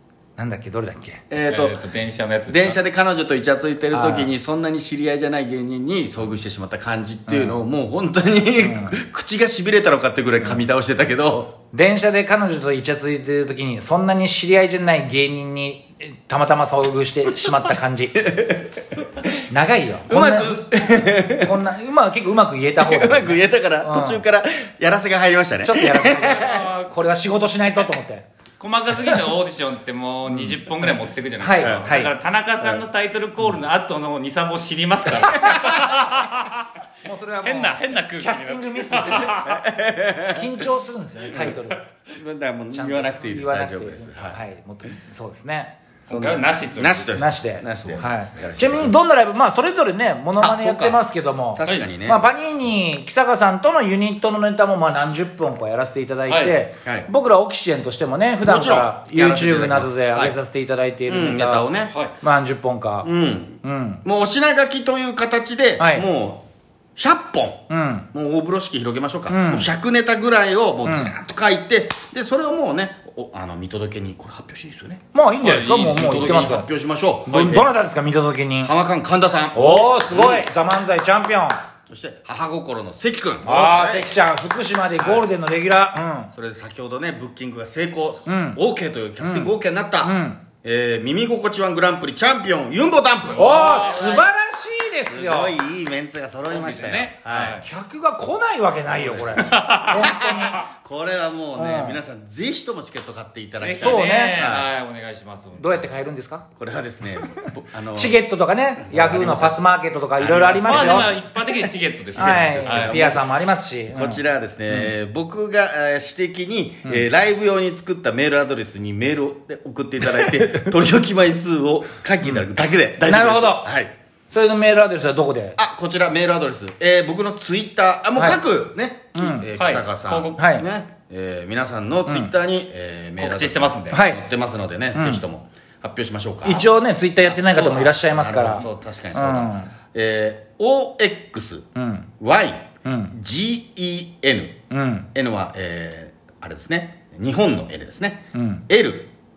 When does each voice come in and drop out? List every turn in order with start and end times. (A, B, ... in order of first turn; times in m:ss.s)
0:00.4-0:01.2 A
0:01.3-0:01.8 B
0:01.5-0:02.8 C
0:02.5-0:11.6 B
0:03.9-0:04.3 A
0:07.3-0:07.6 A
0:08.5-0:09.0 A
0:11.7-0:18.4 A
0:18.2-0:18.8 B
0:19.5-0:24.2 A
0:20.1-0:21.6 B
0:22.8-0:26.7 B
0:25.6-0:28.2 A
0:26.2-0:26.9 C
0:28.6-0:36.7 C
0:31.4-0:32.1 A
0:31.6-0:31.9 B
0:37.0-0:39.3 A
0:37.4-0:39.6 C
0:39.3-0:40.6 B
0:40.3-0:41.8 A
0:41.3-0:44.4 B
0:42.7-0:45.7 A
0:46.1-0:47.2 C
0:46.1-0:49.0 B
0:47.1-1:01.7 A
0:47.8-0:48.1 C
0:50.4-0:51.0 B
0:51.5-0:52.2 B
0:56.3-0:56.6 C
0:56.8-0:57.1 B
0:58.4-1:00.4 B
1:01.1-1:01.9 B
1:01.9-1:02.1 C
1:02.2-1:03.1 A
1:03.0-1:06.4 B
1:03.6-1:04.0 A
1:05.8-1:06.1 A
1:07.0-1:15.0 B
1:07.7-1:08.1 A
1:09.3-1:09.7 A
1:10.8-1:11.1 A
1:15.1-1:16.7 A
1:15.4-1:16.5 C
1:15.9-1:17.6 B
1:17.3-1:18.7 A
1:17.3-1:17.6 C
1:18.6-1:20.5 B
1:19.5-1:21.6 A
1:21.9-1:24.2 B
1:23.4-1:26.3 A
1:25.0-1:25.2 B
1:26.3-1:34.3 B
1:28.3-1:28.6 A
1:29.2-1:30.4 A
1:33.2-1:34.0 C
1:33.4-1:35.6 A
1:35.1-1:37.6 B
1:36.5-1:37.6 C
1:37.6-1:40.6 A
1:38.9-1:44.7 B
1:39.4-1:40.1 C
1:41.6-1:42.0 A
1:43.5-1:46.0 C
1:43.8-1:44.5 A
1:45.6-1:46.4 A
1:46.6-1:48.2 B
1:48.0-1:51.1 A
1:48.8-1:49.6 B
1:50.2-1:53.2 B
1:50.6-1:53.2 C
1:52.2-1:54.9 A
1:53.9-2:03.9 B
2:03.0-2:03.7 A
2:04.3-2:05.6 A
2:05.6-2:16.7 B
2:09.1-2:09.5 A
2:09.6-2:10.4 C
2:10.4-2:10.6 A
2:13.2-2:14.0 C
2:13.9-2:14.2 A
2:14.9-2:15.2 A
2:16.4-2:19.7 A
2:17.2-2:21.7 B
2:21.8-2:22.1 A
2:22.2-2:24.6 B
2:22.8-2:23.1 A
2:24.7-2:25.1 A
2:25.1-2:29.1 B
2:28.3-2:28.6 A